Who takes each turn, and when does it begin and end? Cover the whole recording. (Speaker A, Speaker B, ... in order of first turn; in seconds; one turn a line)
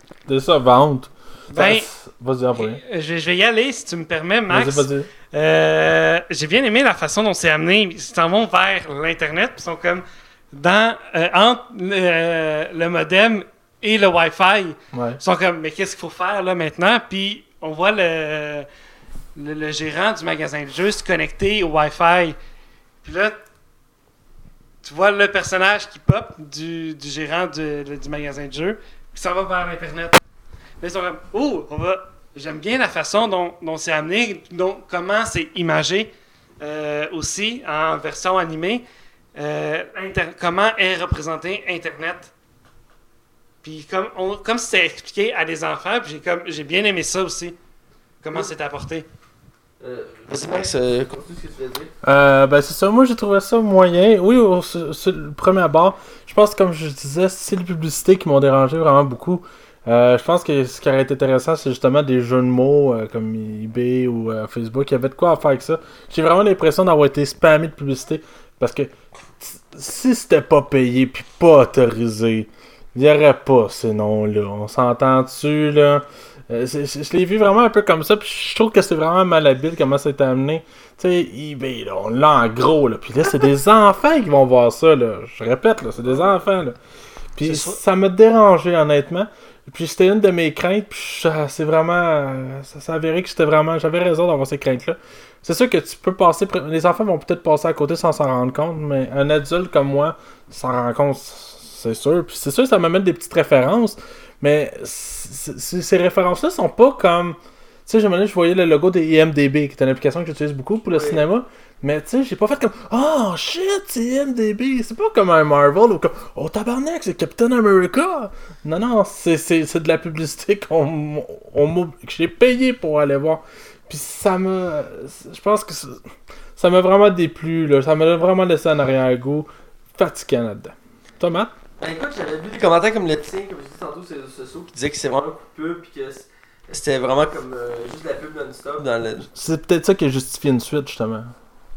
Speaker A: 0.3-2.8
Speaker B: 1.5-1.9
Speaker B: 2.5-18.7
Speaker A: 4.5-5.1
Speaker A: 14.9-15.2
Speaker B: 19.4-22.4
Speaker B: 23.0-23.4
Speaker B: 24.8-30.2
Speaker B: 30.8-38.8
Speaker B: 39.3-42.3
Speaker B: 43.6-47.5
Speaker B: 48.2-49.0
Speaker C: 49.8-51.9
Speaker A: 52.0-86.8
Speaker A: 87.3-126.0
Speaker B: 87.4-87.8
Speaker C: 110.9-111.2
Speaker A: 126.6-131.5
Speaker C: 131.8-139.3
Speaker A: 139.3-141.3